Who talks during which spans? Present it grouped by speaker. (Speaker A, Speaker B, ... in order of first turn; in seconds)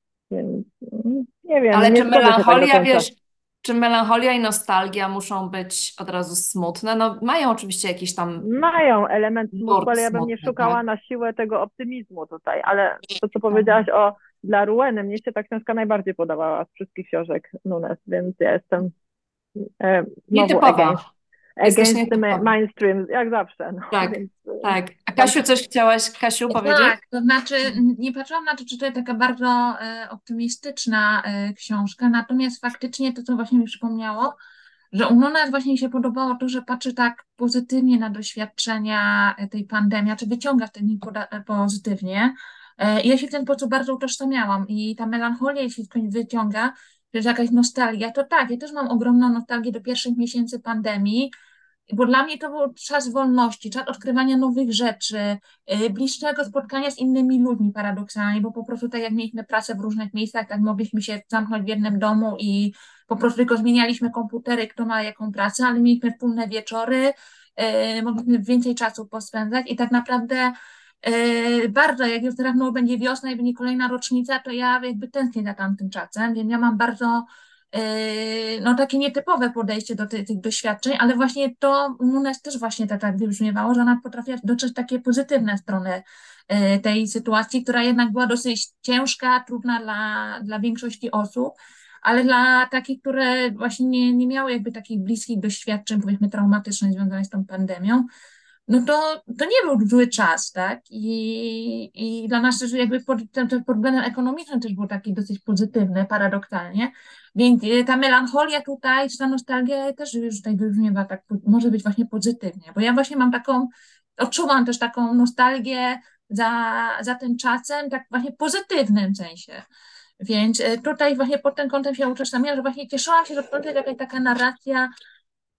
Speaker A: 0.3-3.0, 8.4-18.9, 19.8-21.0, 21.6-25.4
Speaker B: 1.7-8.4, 9.6-10.8, 13.5-13.8, 20.3-21.1, 21.6-22.5, 23.9-27.0
Speaker C: 26.5-34.3, 34.9-51.3, 51.9-98.0, 98.7-119.6, 120.2-124.9